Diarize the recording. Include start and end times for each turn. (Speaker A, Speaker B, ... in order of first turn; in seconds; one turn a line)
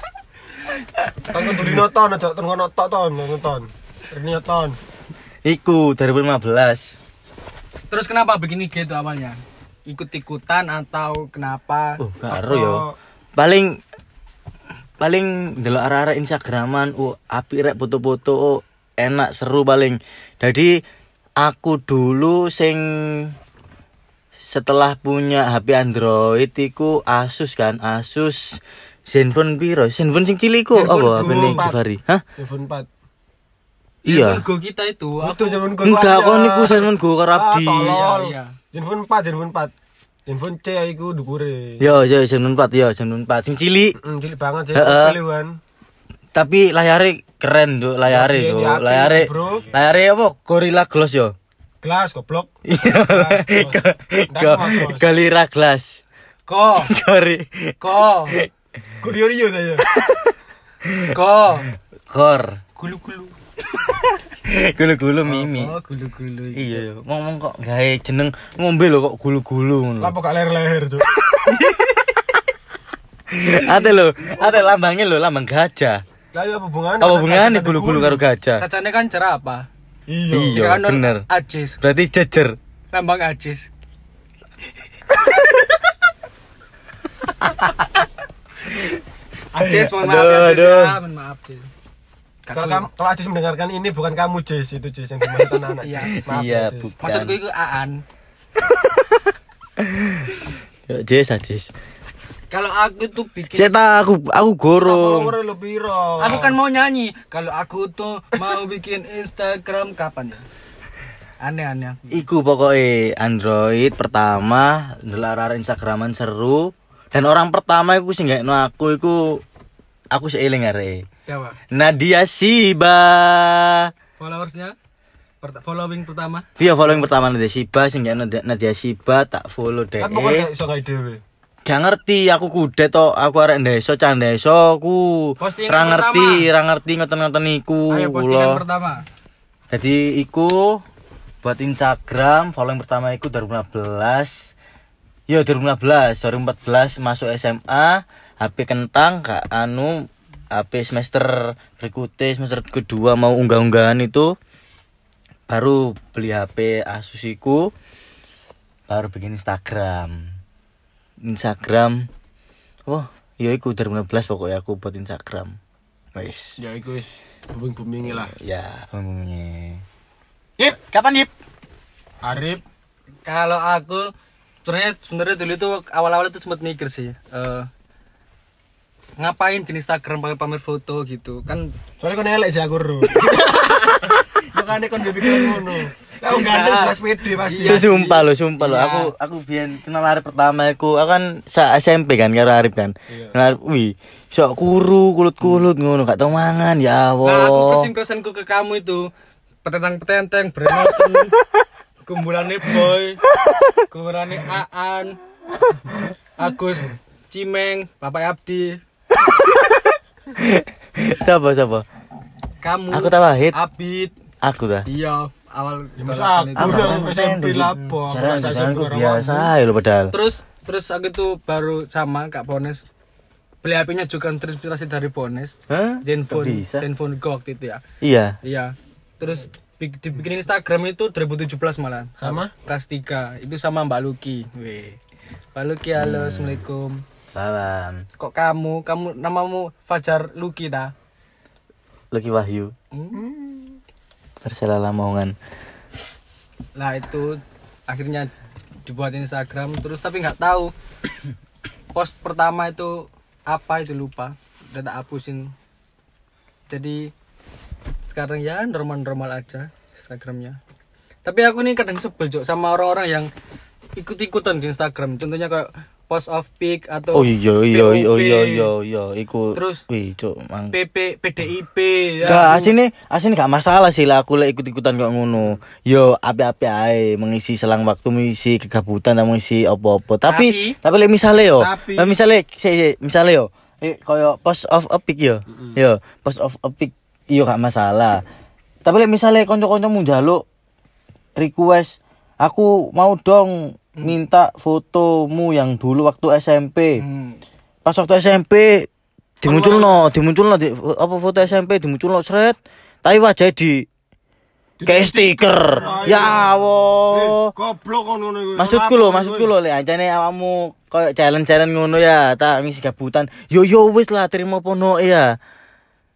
Speaker A: 1.3-4.8
Speaker B: 5.5-7.0
Speaker C: 7.9-12.0
Speaker B: 12.0-12.8
Speaker A: 12.3-13.0
Speaker B: 13.4-13.8
Speaker B: 15.0-20.8
Speaker B: 21.4-23.4
Speaker B: 24.4-32.2
Speaker C: 30.7-31.7
Speaker A: 31.2-31.8
Speaker A: 32.4-32.9
Speaker C: 34.1-35.7
Speaker B: 34.1-34.5
Speaker A: 35.2-39.7
Speaker B: 35.8-38.0
Speaker C: 37.9-38.5
Speaker A: 40.3-41.9
Speaker B: 41.8-44.0
Speaker A: 44.0-45.6
Speaker B: 44.7-45.2
Speaker B: 46.3-51.4
Speaker A: 48.1-49.7
Speaker A: 51.8-55.1
Speaker B: 52.7-56.0
Speaker C: 56.5-56.9
Speaker B: 56.8-58.5
Speaker C: 57.8-58.4
Speaker A: 59.0-59.9
Speaker B: 59.9-61.2
Speaker C: 61.1-61.7
Speaker B: 62.1-62.6
Speaker C: 62.8-63.3
Speaker B: 63.8-65.7
Speaker C: 65.3-66.9
Speaker B: 66.5-70.2
Speaker A: 70.0-71.1
Speaker B: 73.3-76.0
Speaker A: 76.3-78.2
Speaker B: 77.0-78.6
Speaker C: 78.6-79.7
Speaker A: 80.1-80.6
Speaker B: 80.3-81.2
Speaker C: 80.5-81.8
Speaker B: 81.8-82.6
Speaker C: 82.9-83.7
Speaker B: 87.4-88.0
Speaker B: 88.7-89.0
Speaker C: 89.5-91.7
Speaker B: 89.6-91.0
Speaker C: 92.5-92.9
Speaker A: 92.5-96.9
Speaker C: 95.8-96.2
Speaker B: 96.1-97.4
Speaker C: 97.0-98.0
Speaker B: 98.7-99.2
Speaker B: 99.8-101.7
Speaker C: 102.5-103.8
Speaker B: 103.5-105.3
Speaker A: 104.7-106.6
Speaker C: 106.2-110.4
Speaker C: 111.4-112.2
Speaker B: 112.1-119.4
Speaker B: 120.1-121.1
Speaker C: 121.2-121.6
Speaker B: 121.7-123.9
Speaker C: 124.2-124.8
Speaker C: 125.4-126.5
Speaker B: 126.6-130.5
Speaker A: 130.0-131.2
Speaker B: 131.7-138.6
Speaker C: 135.4-136.5
Speaker C: 137.9-139.0
Speaker B: 139.7-140.8
Speaker B: 141.4-144.5
Speaker B: 145.3-154.3
Speaker B: 155.5-157.7
Speaker B: 158.9-160.4
Speaker B: 161.2-162.1
Speaker B: 162.9-165.6
Speaker B: 166.2-166.6
Speaker A: 166.6-168.3
Speaker B: 168.0-169.8
Speaker B: 170.7-171.3
Speaker A: 172.2-172.6
Speaker C: 173.3-174.1
Speaker C: 174.7-177.7
Speaker C: 179.2-181.7
Speaker A: 182.0-183.3
Speaker C: 183.1-184.2
Speaker A: 184.5-187.8
Speaker C: 186.3-189.1
Speaker B: 187.6-197.9
Speaker A: 193.1-193.3
Speaker C: 197.2-199.1
Speaker C: 199.7-201.3
Speaker C: 202.1-203.2
Speaker C: 203.9-205.2
Speaker C: 206.4-208.8
Speaker B: 210.3-211.8
Speaker C: 212.6-214.1
Speaker B: 212.9-213.6
Speaker B: 214.4-214.9
Speaker C: 214.9-217.1
Speaker A: 216.0-219.5
Speaker B: 216.6-220.2
Speaker C: 220.1-222.9
Speaker C: 223.6-227.8
Speaker B: 225.7-226.9
Speaker B: 228.0-228.4
Speaker C: 228.4-235.0
Speaker A: 232.2-232.5
Speaker C: 235.6-237.0
Speaker B: 236.0-236.6
Speaker B: 237.3-238.1
Speaker C: 238.2-240.9
Speaker B: 242.1-242.7
Speaker C: 242.9-243.3
Speaker B: 244.4-245.3
Speaker C: 246.8-248.3
Speaker C: 248.9-250.7
Speaker C: 251.9-255.5
Speaker C: 256.7-257.1
Speaker C: 258.1-260.6
Speaker C: 261.2-263.3
Speaker C: 264.0-268.7
Speaker B: 267.1-270.8
Speaker C: 269.5-269.8
Speaker C: 270.7-272.7
Speaker B: 272.2-288.2
Speaker C: 280.3-280.8
Speaker A: 281.5-282.2
Speaker A: 285.5-285.8
Speaker B: 288.9-290.4
Speaker B: 291.4-297.0
Speaker C: 297.0-297.4
Speaker B: 297.9-298.9
Speaker B: 299.4-303.9
Speaker A: 299.4-300.1
Speaker A: 304.8-306.5
Speaker B: 304.9-307.5
Speaker C: 305.8-306.4
Speaker A: 307.1-309.5
Speaker B: 308.6-315.4